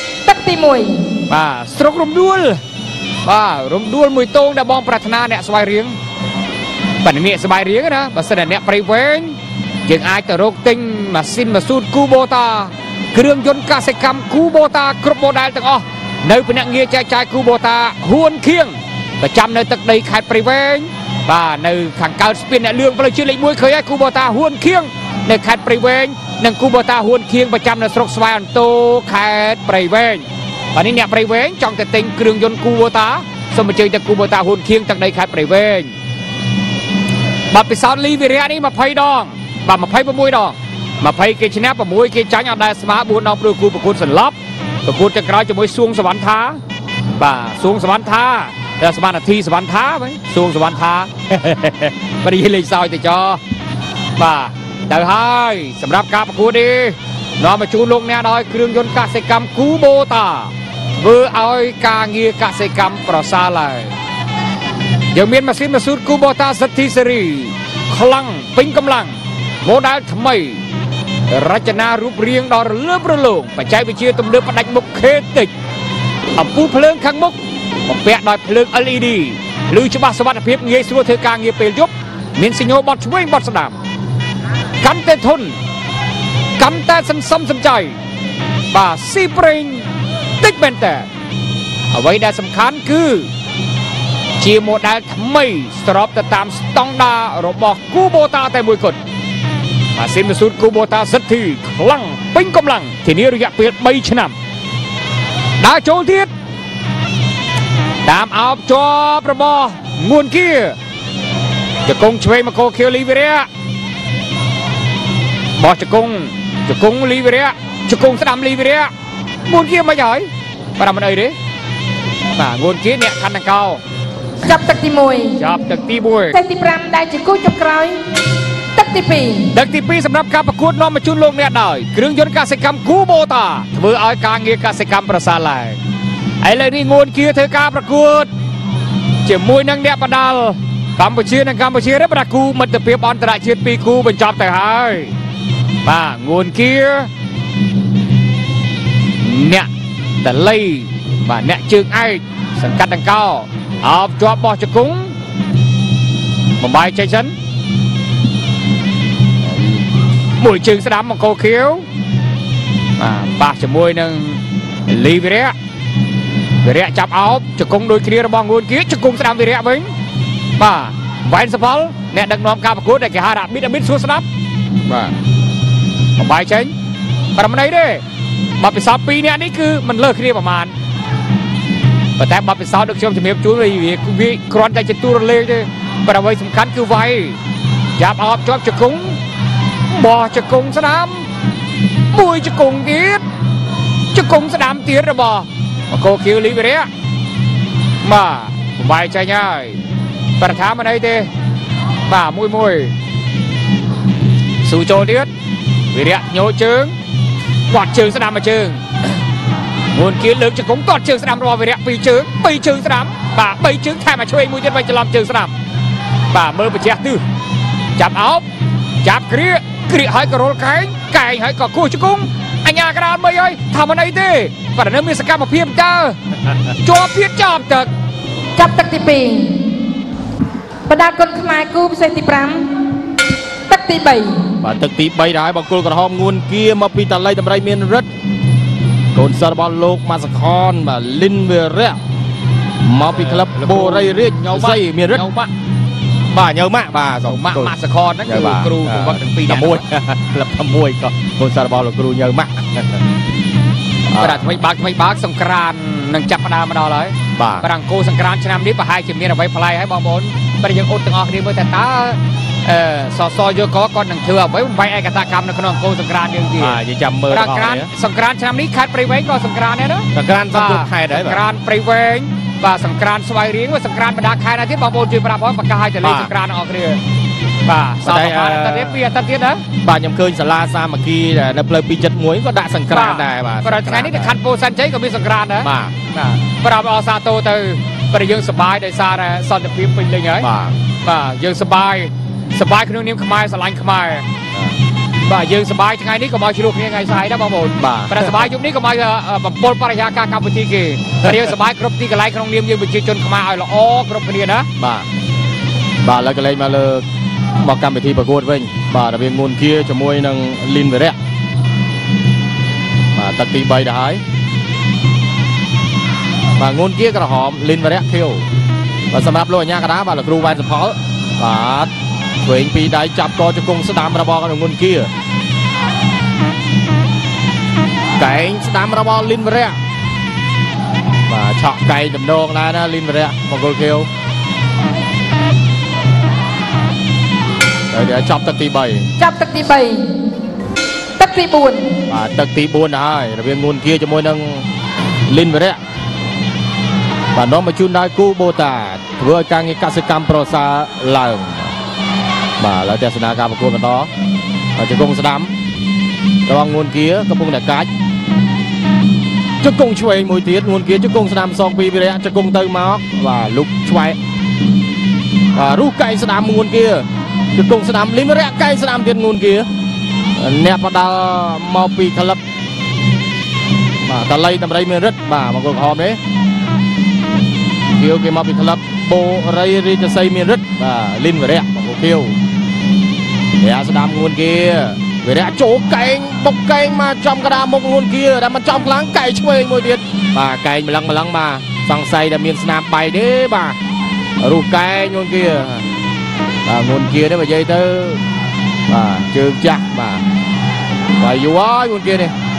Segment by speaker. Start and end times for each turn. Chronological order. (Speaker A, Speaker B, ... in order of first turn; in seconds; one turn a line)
Speaker A: 0.2-1.1
Speaker B: 1.3-2.6
Speaker B: 3.2-6.0
Speaker B: 7.0-35.9
Speaker B: 37.5-46.6
Speaker B: 47.2-53.4
Speaker B: 54.2-63.9
Speaker B: 65.1-70.6
Speaker B: 71.3-75.5
Speaker B: 76.3-77.4
Speaker B: 77.9-83.8
Speaker B: 84.8-85.6
Speaker B: 86.6-88.0
Speaker B: 88.7-89.9
Speaker B: 90.4-91.1
Speaker B: 91.9-93.3
Speaker B: 94.4-99.0
Speaker B: 100.0-104.3
Speaker B: 105.6-106.3
Speaker B: 108.0-110.8
Speaker B: 111.9-113.5
Speaker B: 115.6-118.9
Speaker B: 119.5-121.3
Speaker B: 122.4-123.8
Speaker A: 124.4-125.5
Speaker B: 125.4-126.4
Speaker A: 126.3-128.0
Speaker A: 128.8-129.5
Speaker B: 129.5-135.8
Speaker B: 136.4-138.3
Speaker B: 139.2-145.1
Speaker B: 145.8-147.1
Speaker B: 149.2-149.7
Speaker B: 150.2-155.2
Speaker B: 156.6-157.3
Speaker B: 160.4-161.9
Speaker B: 163.0-165.5
Speaker B: 166.6-169.9
Speaker B: 170.6-174.2
Speaker B: 174.9-175.1
Speaker B: 176.2-176.7
Speaker B: 177.4-178.0
Speaker B: 178.6-180.7
Speaker B: 182.2-187.4
Speaker B: 188.0-189.2
Speaker B: 189.9-191.3
Speaker B: 192.1-193.2
Speaker B: 194.1-196.9
Speaker B: 198.0-199.8
Speaker B: 200.4-201.3
Speaker B: 202.1-202.9
Speaker B: 204.6-205.3
Speaker B: 205.9-206.9
Speaker B: 207.7-208.8
Speaker B: 209.9-215.6
Speaker B: 216.3-217.2
Speaker B: 218.0-218.4
Speaker B: 219.0-227.9
Speaker A: 228.6-229.8
Speaker A: 230.9-232.9
Speaker A: 233.7-234.4
Speaker C: 234.6-238.1
Speaker C: 239.1-242.0
Speaker C: 242.8-245.2
Speaker B: 243.1-245.5
Speaker C: 246.3-247.7
Speaker B: 247.3-249.8
Speaker C: 248.2-253.0
Speaker C: 254.1-254.4
Speaker B: 254.2-266.8
Speaker C: 257.4-257.7
Speaker C: 266.6-267.9
Speaker B: 267.3-277.0
Speaker C: 270.1-271.4
Speaker C: 276.0-276.3
Speaker B: 277.6-279.6
Speaker C: 278.0-279.0
Speaker C: 279.8-284.4
Speaker B: 282.9-290.5
Speaker C: 285.6-285.9
Speaker C: 290.4-290.8
Speaker B: 291.0-294.3
Speaker B: 295.2-304.7
Speaker C: 297.8-298.5
Speaker C: 304.8-305.1
Speaker C: 306.0-307.0
Speaker C: 307.6-311.2
Speaker C: 313.1-314.2
Speaker C: 316.6-318.5
Speaker C: 319.1-321.9
Speaker C: 322.4-325.1
Speaker C: 328.2-329.8
Speaker C: 331.3-334.1
Speaker C: 337.9-339.1
Speaker A: 339.2-340.1
Speaker A: 341.2-342.0
Speaker C: 342.1-344.7
Speaker C: 345.3-345.8
Speaker C: 347.3-351.7
Speaker C: 352.6-354.1
Speaker C: 354.8-355.5
Speaker C: 356.5-357.9
Speaker C: 359.6-364.2
Speaker C: 365.6-369.7
Speaker C: 370.4-372.4
Speaker C: 374.1-376.2
Speaker C: 378.0-382.4
Speaker C: 383.6-393.8
Speaker C: 394.4-395.9
Speaker C: 396.7-398.2
Speaker C: 398.9-400.2
Speaker C: 401.2-402.3